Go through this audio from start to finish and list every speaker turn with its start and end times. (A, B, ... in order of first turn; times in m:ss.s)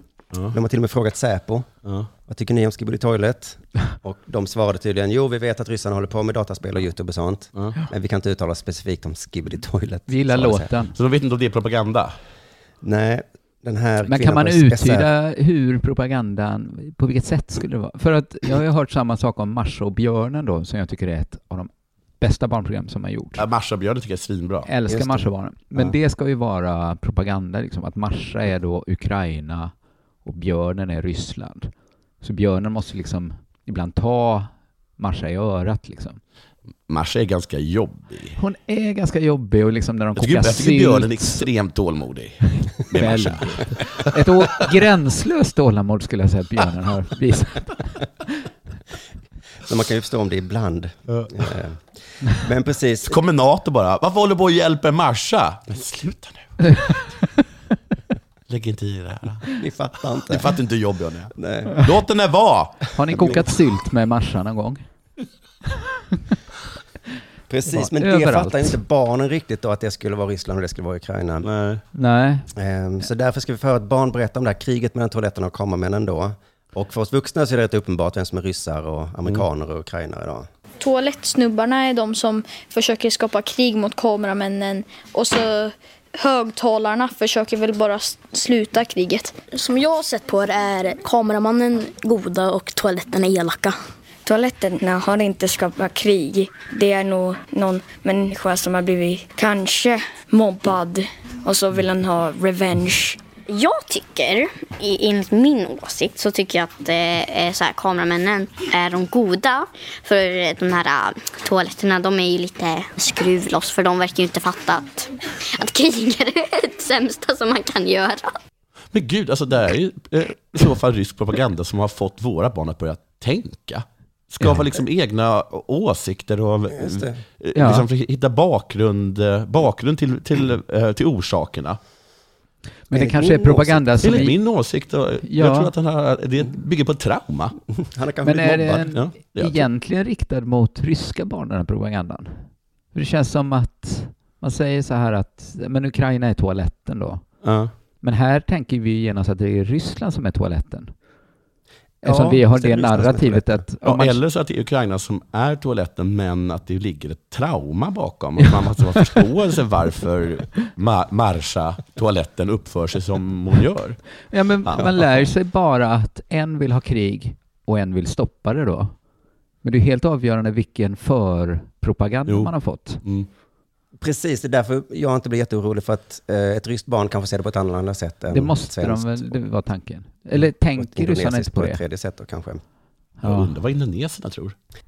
0:00.4-0:01.7 A
0:02.2-0:10.7 A
0:10.1-0:10.9 B
0:10.9-0:12.1 C
0:12.8-0:15.1 A
0:14.0-0:23.4 B
0:23.4-0:24.7 C
0:24.6-0:36.2 B
0:24.9-0:26.0 A
0:36.9-0:38.4 C
0:38.4-0:41.5 B
0:40.2-0:44.0 C
0:42.7-0:48.3 B
0:49.6-0:53.2 A
0:53.1-0:57.2 C
0:58.5-0:59.5 C
0:59.6-1:00.6 A
1:00.2-1:03.5 C
1:01.3-1:01.9 A
1:02.9-1:04.9 B
1:03.0-1:03.4 A
1:07.5-1:11.5 A
1:07.7-1:08.8 B
1:11.4-1:11.8 C
1:11.9-1:12.5 B
1:12.6-1:20.5 A
1:20.8-1:29.4 D
1:29.5-1:33.7 E
1:34.2-1:34.5 D
1:34.3-1:43.2 F
1:43.5-1:58.3 G
1:58.9-2:11.8 C
2:06.7-2:07.2 A
2:07.5-2:07.9 B
2:12.9-2:15.7 B
2:12.9-2:14.3 A
2:14.0-2:17.6 C
2:17.8-2:18.9 A
2:18.2-2:31.1 B
2:18.7-2:19.7 C
2:27.4-2:27.7 C
2:32.0-2:33.6 A
2:32.0-2:34.2 B
2:33.8-2:45.2 C
2:44.3-2:49.1 B
2:49.6-2:53.0 B
2:52.3-2:53.3 C
2:54.0-2:59.6 A
2:58.3-3:01.8 B
3:00.3-3:02.6 A
3:03.2-3:03.6 B
3:03.2-3:04.5 C